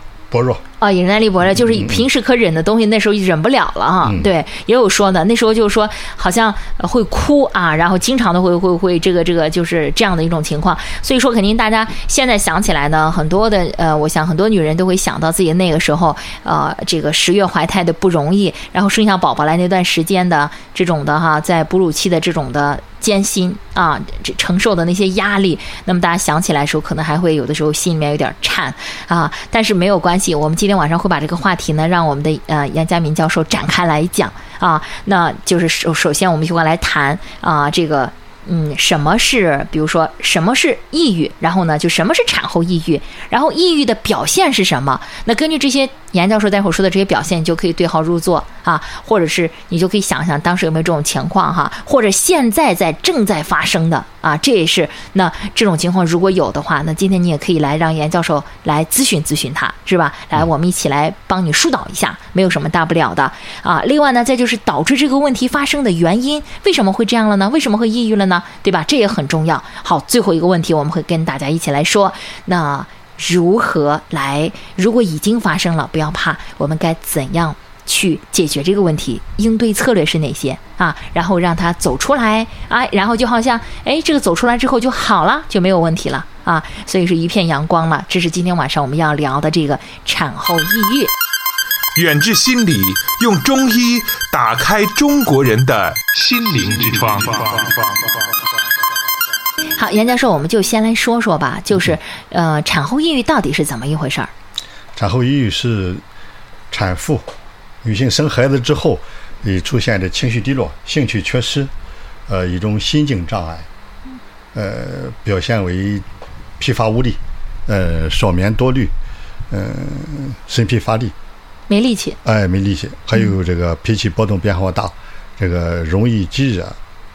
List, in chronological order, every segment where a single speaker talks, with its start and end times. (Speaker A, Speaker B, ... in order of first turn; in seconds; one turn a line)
Speaker A: 0.3-0.6
Speaker B: 0.8-91.1
Speaker A: 1.5-2.1
Speaker A: 4.0-4.3
Speaker C: 92.0-98.1
Speaker B: 99.8-104.3
Speaker A: 105.0-106.0
Speaker A: 106.7-107.3
Speaker A: 107.8-111.7
Speaker A: 112.3-113.7
Speaker A: 114.5-116.0
Speaker A: 116.6-118.9
Speaker A: 119.5-121.1
Speaker B: 121.7-122.2
Speaker A: 122.2-126.8